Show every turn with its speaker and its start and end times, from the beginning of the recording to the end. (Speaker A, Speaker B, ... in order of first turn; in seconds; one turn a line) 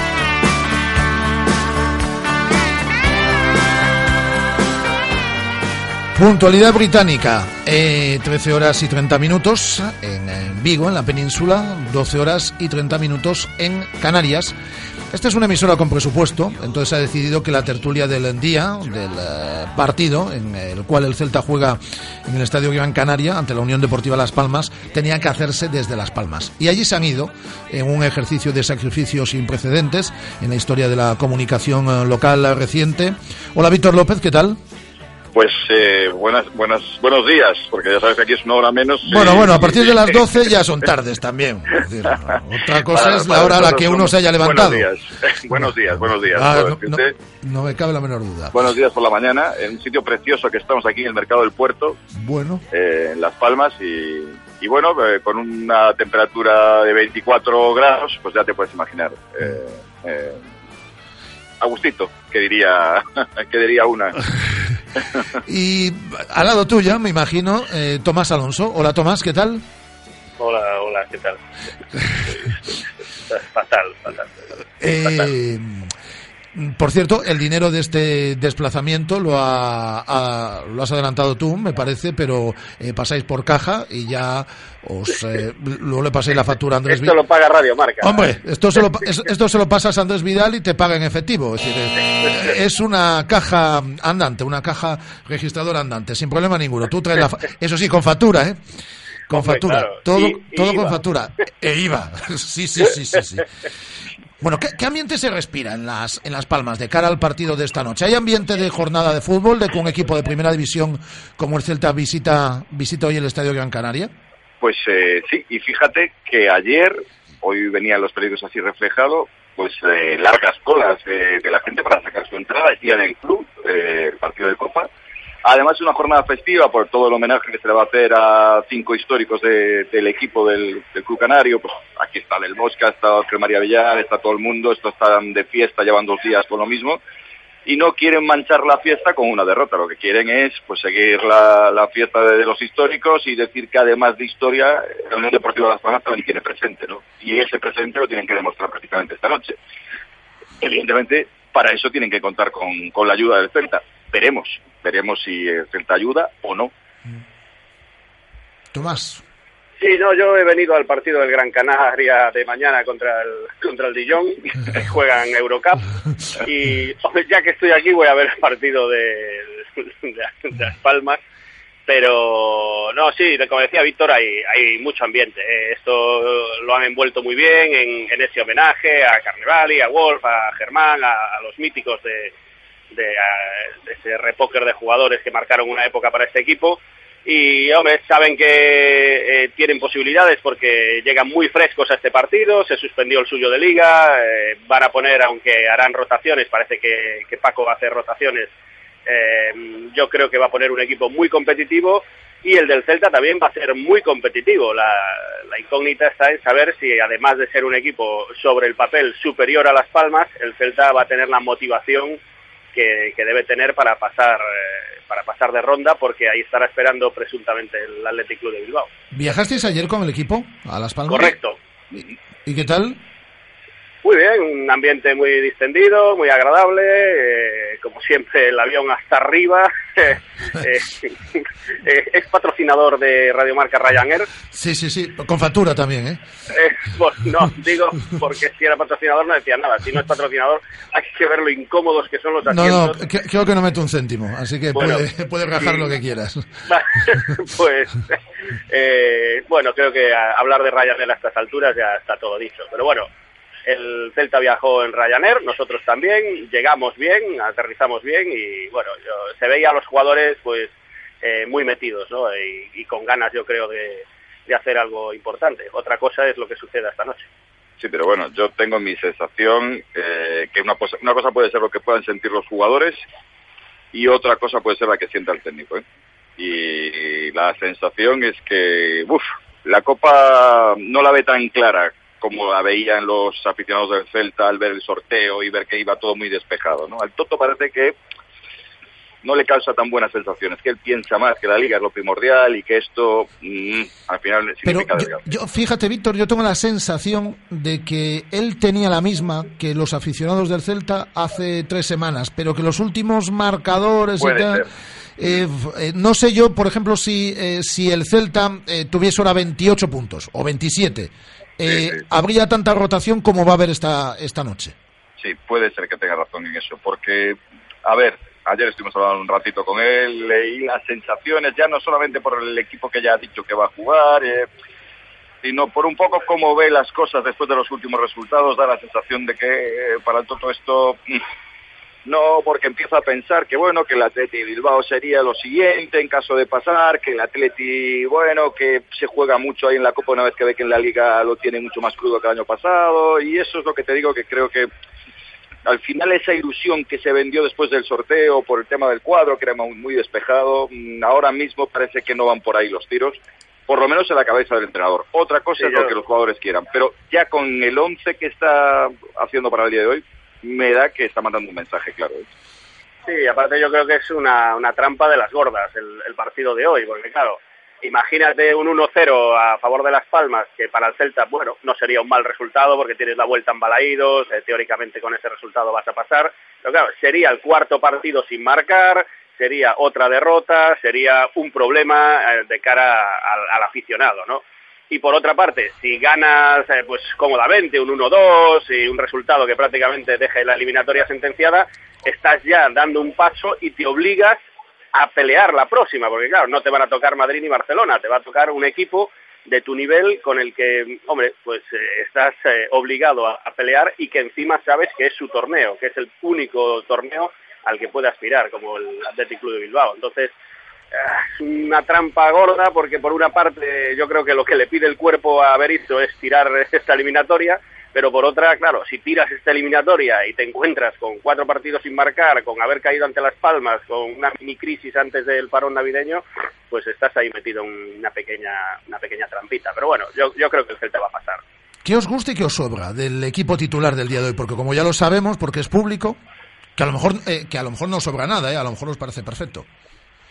Speaker A: 6.1-14.5
Speaker A: 15.1-34.6
Speaker B: 35.3-40.2
Speaker A: 39.0-44.9
Speaker B: 42.9-47.1
Speaker A: 45.5-48.6
Speaker B: 48.5-52.0
Speaker A: 52.1-52.6
Speaker B: 52.7-60.4
Speaker B: 61.6-64.1
Speaker A: 65.5-69.6
Speaker C: 70.4-71.4
Speaker C: 73.3-74.2
Speaker A: 74.8-75.9
Speaker A: 76.5-87.1
Speaker C: 86.9-88.2
Speaker A: 88.0-98.6
Speaker A: 99.3-103.4
Speaker C: 99.3-100.9
Speaker A: 104.4-114.1
Speaker B: 114.6-124.9
Speaker B: 125.4-137.0
Speaker B: 137.7-149.5
Speaker B: 150.6-156.7
Speaker A: 158.7-159.2
Speaker C: 159.8-165.8
Speaker C: 166.4-171.2
Speaker C: 171.9-182.3
Speaker C: 182.9-198.5
Speaker C: 199.1-212.2
Speaker C: 212.7-218.9
Speaker A: 219.1-221.4
Speaker C: 221.1-221.6
Speaker A: 221.9-223.0
Speaker C: 224.0-231.1
Speaker C: 231.8-234.3
Speaker A: 234.5-236.2
Speaker C: 236.5-242.9
Speaker A: 242.5-246.5
Speaker C: 244.7-245.0
Speaker C: 245.6-245.9
Speaker C: 246.7-247.9
Speaker C: 248.7-253.1
Speaker C: 253.7-267.3
Speaker B: 267.8-273.0
Speaker B: 273.9-275.8
Speaker B: 276.4-287.9
Speaker B: 289.2-295.2
Speaker A: 294.6-304.6
Speaker B: 304.2-304.6
Speaker A: 305.2-314.7
Speaker B: 311.7-312.0
Speaker B: 315.2-324.5
Speaker B: 325.4-331.1
Speaker B: 332.1-344.7
Speaker B: 345.6-362.2
Speaker C: 355.6-355.9
Speaker C: 363.1-394.4
Speaker C: 394.9-410.3
Speaker C: 410.9-431.4
Speaker A: 431.8-436.2
Speaker A: 436.8-439.7